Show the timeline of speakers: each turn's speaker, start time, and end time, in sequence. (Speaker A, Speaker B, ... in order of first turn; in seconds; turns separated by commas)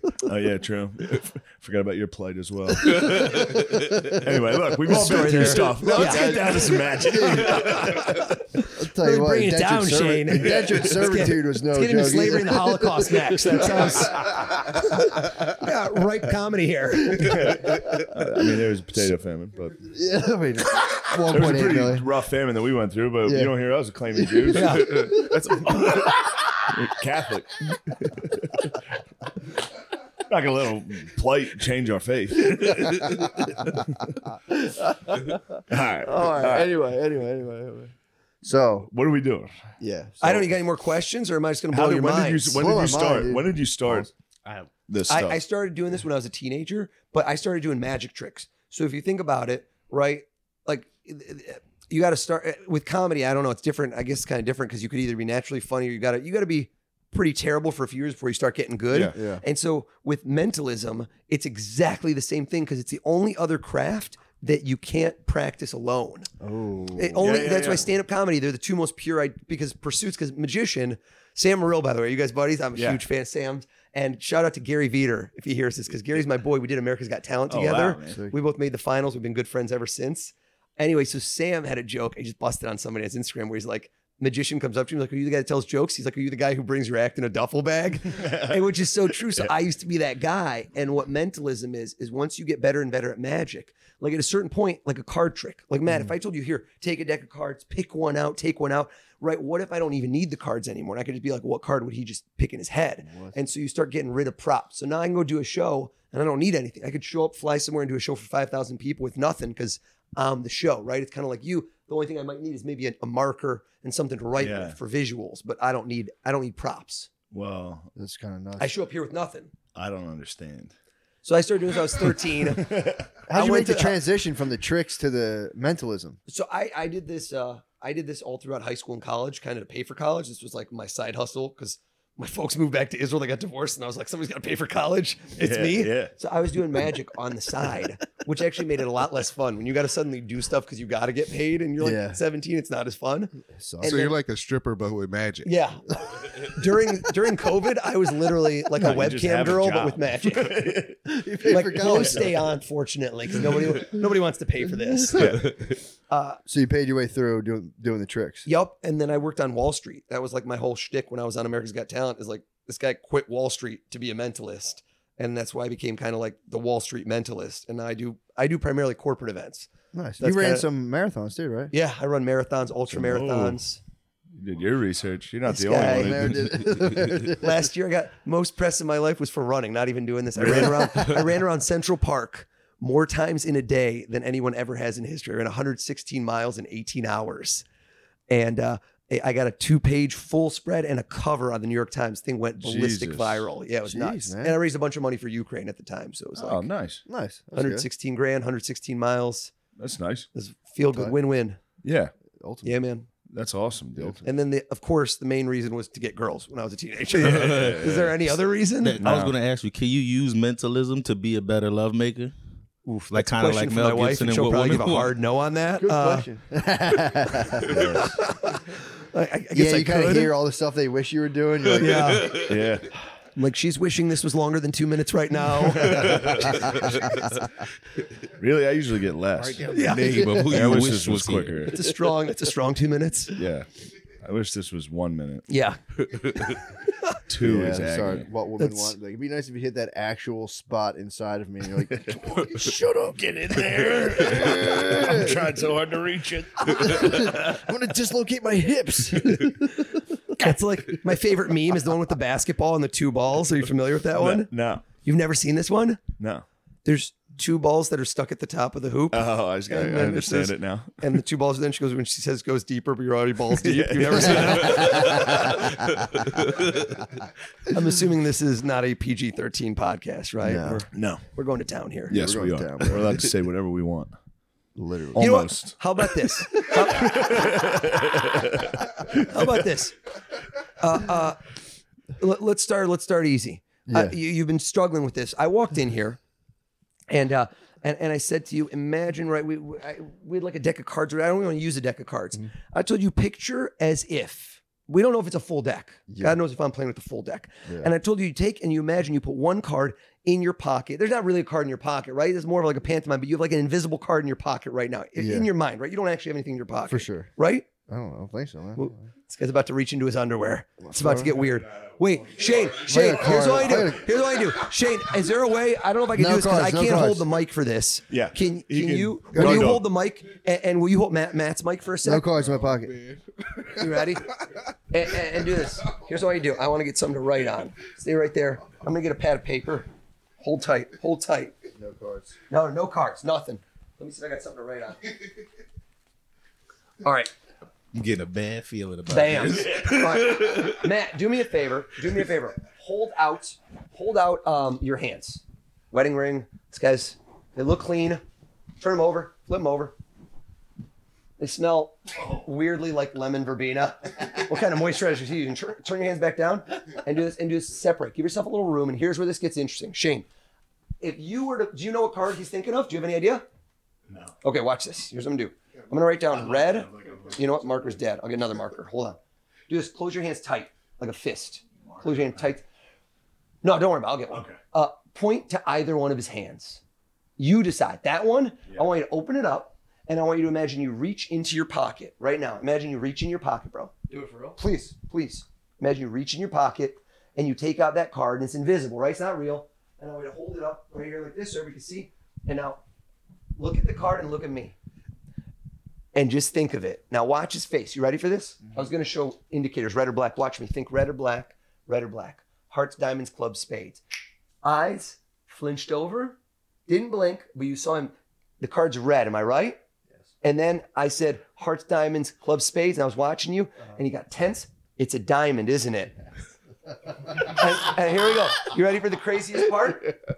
Speaker A: 0.2-8.1, Speaker B: 2.9-3.9, Speaker C: 4.8-6.5, Speaker D: 5.9-7.8, Speaker C: 7.7-17.6, Speaker D: 8.7-14.1, Speaker A: 17.1-19.9, Speaker D: 19.8-22.1, Speaker A: 21.3-25.1, Speaker D: 23.2-23.5, Speaker D: 24.2-25.3, Speaker C: 24.5-25.2, Speaker B: 24.8-26.1, Speaker A: 26.0-28.8, Speaker A: 30.3-33.8, Speaker D: 34.5-35.4, Speaker A: 35.7-36.7, Speaker D: 36.0-37.9, Speaker D: 38.4-38.9, Speaker A: 38.8-39.5, Speaker D: 39.8-40.4, Speaker C: 40.2-42.6, Speaker A: 41.7-44.1, Speaker D: 42.5-44.1, Speaker A: 44.9-45.4, Speaker C: 45.1-66.3, Speaker A: 58.9-59.1, Speaker D: 59.1-59.4, Speaker D: 66.4-67.4, Speaker C: 66.9-117.1, Speaker A: 67.2-67.9, Speaker A: 72.8-73.0, Speaker A: 77.5-78.2, Speaker D: 78.1-78.3, Speaker A: 88.1-88.7, Speaker D: 103.0-103.3, Speaker A: 114.4-114.8, Speaker A: 117.3-117.9, Speaker D: 118.0-118.7, Speaker C: 118.6-119.5, Speaker A: 119.7-120.7, Speaker C: 121.2-124.0, Speaker A: 122.6-123.0, Speaker D: 123.3-126.2, Speaker C: 126.3-144.1, Speaker A: 135.4-136.1, Speaker D: 141.8-142.2, Speaker D: 143.5-144.0, Speaker E: 143.8-145.6, Speaker C: 145.4-150.7, Speaker A: 148.8-152.3, Speaker D: 151.1-152.4, Speaker C: 151.4-155.5, Speaker A: 155.1-155.6, Speaker C: 156.1-156.4, Speaker D: 156.4-158.5, Speaker C: 158.4-170.7, Speaker D: 169.9-171.7, Speaker C: 171.7-173.8, Speaker A: 172.9-173.6, Speaker A: 174.4-177.0, Speaker C: 175.5-176.6, Speaker D: 175.7-177.5, Speaker C: 177.2-187.6, Speaker A: 180.4-181.1, Speaker C: 188.3-196.7, Speaker A: 192.6-193.4, Speaker D: 193.8-194.6, Speaker A: 196.4-197.0, Speaker D: 197.1-197.9, Speaker C: 197.5-199.5, Speaker A: 199.8-200.3, Speaker C: 200.3-201.6, Speaker A: 201.8-202.1, Speaker D: 202.3-202.8, Speaker C: 202.6-203.1, Speaker A: 203.3-204.2, Speaker D: 203.9-204.2, Speaker C: 204.2-209.0, Speaker A: 207.2-208.2, Speaker B: 207.2-207.9, Speaker B: 208.8-212.3, Speaker A: 209.0-209.3, Speaker C: 212.8-216.3, Speaker B: 213.1-215.1, Speaker D: 215.8-218.1, Speaker A: 217.6-218.1, Speaker C: 217.9-220.3, Speaker D: 219.5-222.3, Speaker C: 221.8-222.5, Speaker B: 222.0-222.5, Speaker A: 222.4-222.9, Speaker C: 223.3-226.3, Speaker B: 225.8-227.2, Speaker A: 225.9-226.6, Speaker A: 228.3-231.9, Speaker B: 229.4-231.7, Speaker C: 229.7-230.3, Speaker C: 231.7-233.4, Speaker A: 233.3-233.7, Speaker A: 234.2-235.5, Speaker C: 235.5-235.8, Speaker B: 236.1-236.6, Speaker A: 237.3-238.2, Speaker D: 237.4-242.8, Speaker C: 238.6-238.9, Speaker A: 241.9-247.4, Speaker D: 244.2-245.4, Speaker D: 246.6-249.9, Speaker C: 250.4-256.0, Speaker A: 254.1-254.8, Speaker A: 256.2-256.4, Speaker C: 256.8-265.6, Speaker A: 259.1-261.0, Speaker A: 263.6-265.5, Speaker B: 264.9-265.3, Speaker C: 267.7-272.1, Speaker D: 270.4-270.8, Speaker A: 270.9-271.2, Speaker D: 272.1-273.2, Speaker A: 272.1-274.1, Speaker D: 274.8-275.4, Speaker A: 275.1-279.4, Speaker C: 275.2-277.7, Speaker C: 279.1-279.9, Speaker C: 280.8-281.5, Speaker C: 282.2-286.2, Speaker D: 283.9-284.2, Speaker C: 287.1-307.7, Speaker D: 296.1-296.4, Speaker D: 305.2-305.5, Speaker D: 306.9-307.3, Speaker D: 307.9-309.1, Speaker C: 308.8-322.3, Speaker D: 310.8-311.4, Speaker D: 312.8-314.2, Speaker D: 316.1-317.3, Speaker A: 318.1-319.9, Speaker D: 319.3-319.7, Speaker D: 322.0-322.9, Speaker E: 322.3-323.9, Speaker C: 323.7-324.3, Speaker C: 324.9-329.9, Speaker C: 330.4-331.6, Speaker D: 331.8-332.3, Speaker C: 332.5-335.2, Speaker C: 337.0-337.3, Speaker B: 337.9-340.8, Speaker C: 339.1-348.2, Speaker C: 348.8-349.9, Speaker C: 351.4-360.2, Speaker C: 361.0-363.4, Speaker C: 364.4-369.2, Speaker A: 366.4-367.4, Speaker C: 369.7-372.6, Speaker C: 373.6-376.8, Speaker C: 377.4-392.8, Speaker C: 393.6-394.7, Speaker C: 396.1-404.0, Speaker C: 404.6-409.8, Speaker C: 410.4-416.1, Speaker C: 417.3-420.2